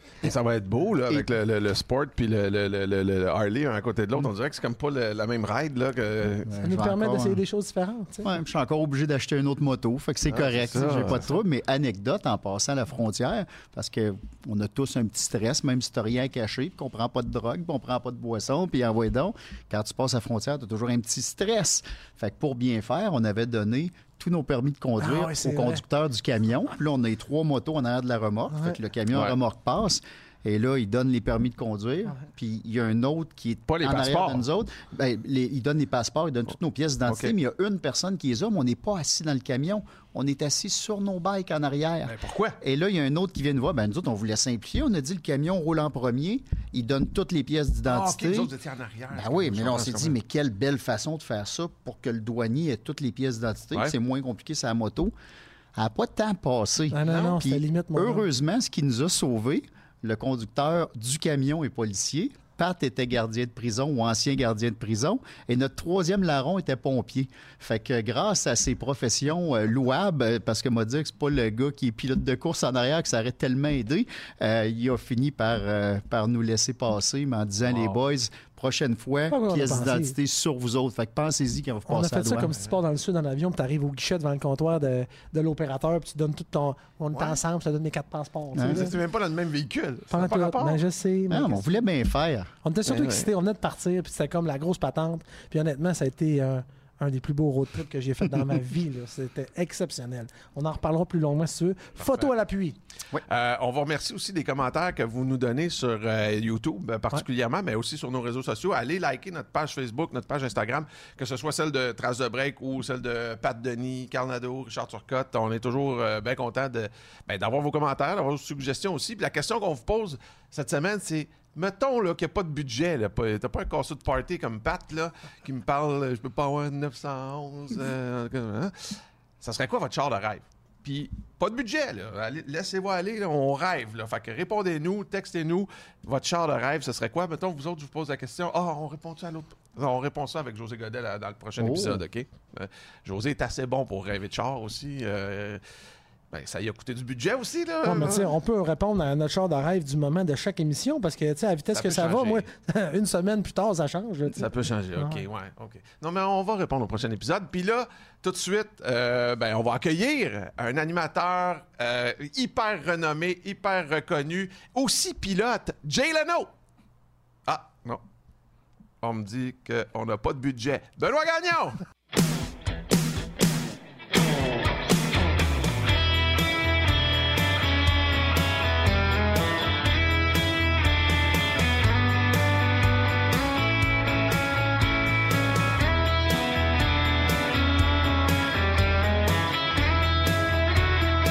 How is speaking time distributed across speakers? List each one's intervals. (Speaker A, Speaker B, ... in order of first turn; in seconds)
Speaker A: 0.2-6.5, 10.3-11.3, 33.7-34.5, 37.0-37.3, 42.0-42.6, 47.9-50.2, 57.0-57.3, 77.7-78.0, 88.6-90.8, 92.9-93.3, 103.3-145.6, 146.3-148.3, 151.7-152.4, 154.3-166.5, 167.5-168.0, 169.0-171.8
Speaker B: 6.5-7.4, 8.2-48.5, 49.1-55.1, 55.7-82.5, 88.5-88.9, 91.3-92.5, 141.6-142.0
Speaker C: 6.6-8.3, 25.0-25.8, 28.5-28.8, 56.9-58.2, 79.3-80.1, 81.9-89.0, 90.1-91.7, 92.6-102.8, 147.8-154.4, 155.0-155.2